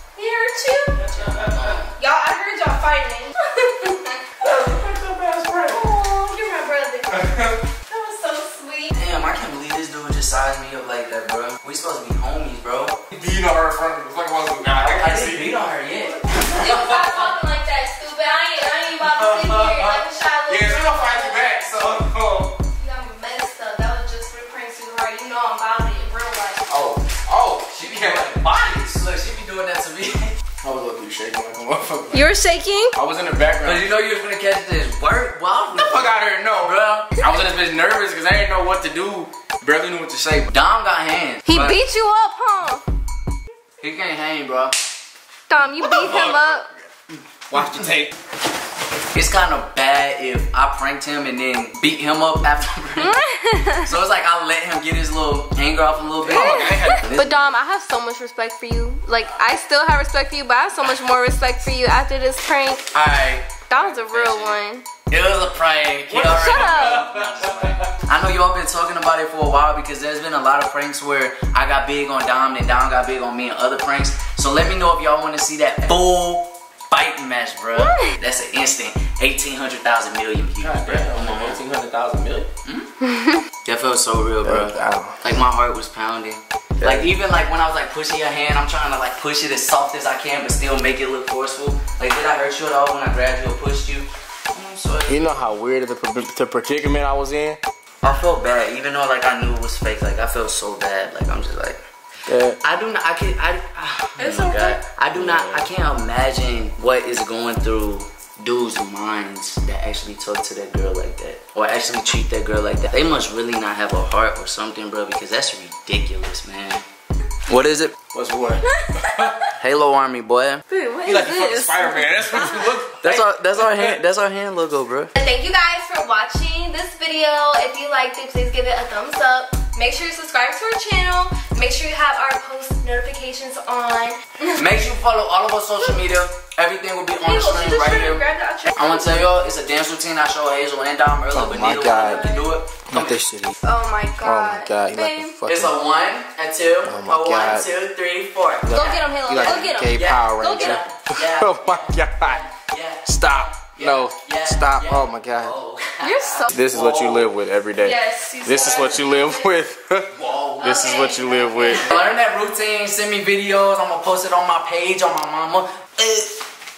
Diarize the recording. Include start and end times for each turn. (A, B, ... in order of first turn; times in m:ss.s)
0:00.2-0:01.0 A
0:01.0-0:01.8 B
0:01.0-0:01.9 C
0:02.0-0:04.2 A
0:04.4-0:05.9 B
0:05.7-0:07.1 A
0:07.1-0:07.6 B
0:07.9-0:08.9 A
0:08.9-0:13.0 C
0:13.1-0:15.5 B
0:14.8-0:17.4 C
0:16.5-0:21.6 A
0:19.0-0:22.5 B
0:22.8-0:26.7 A
0:26.7-0:28.4 B
0:27.7-0:30.4 C
0:30.6-0:32.3 B
0:32.1-0:32.9 A
0:32.9-0:33.9 B
0:33.6-0:37.1 C
0:35.8-0:40.5 B
0:40.5-0:41.8 C
0:41.5-0:42.8 A
0:43.8-0:44.8 C
0:45.5-0:46.7 A
0:45.9-0:46.5 B
0:47.5-0:48.1 B
0:49.1-0:53.1 C
0:53.0-0:54.0 A
0:53.8-0:57.4 C
0:56.2-0:57.0 B
0:56.3-1:02.9 A
1:02.9-1:21.6 C
1:03.7-1:04.9 A
1:06.1-1:07.9 B
1:06.2-1:07.0 A
1:17.7-1:18.2 A
1:20.6-1:22.5 B
1:22.6-1:22.9 C
1:23.0-1:23.4 A
1:23.6-1:35.2 C
1:24.4-1:25.3 B
1:26.8-1:27.2 B
1:35.1-1:37.6 B
1:38.0-1:41.8 C
1:42.3-1:42.6 B
1:42.6-1:56.8 C
1:44.2-1:44.8 A
1:45.1-1:45.7 B
1:57.5-1:58.0 C
1:58.1-1:59.4 B
1:58.6-1:59.5 A
1:59.6-2:00.6 C
2:00.7-2:02.7 A
2:01.0-2:04.0 B
2:03.0-2:05.1 C
2:05.2-2:14.6 A
2:14.5-2:23.2 C
2:17.2-2:19.1 A
2:21.3-2:22.3 B
2:21.9-2:22.5 A
2:22.9-2:23.6 B
2:23.6-2:25.4 A
2:24.2-2:25.7 B
2:25.5-2:37.3 C
2:26.8-2:27.7 B
2:28.6-2:32.4 B
2:28.7-2:30.8 A
2:33.1-2:35.6 B
2:36.0-2:36.5 A
2:36.5-2:41.8 B
2:37.8-2:39.6 A
2:40.1-2:46.4 C
2:40.6-2:41.9 A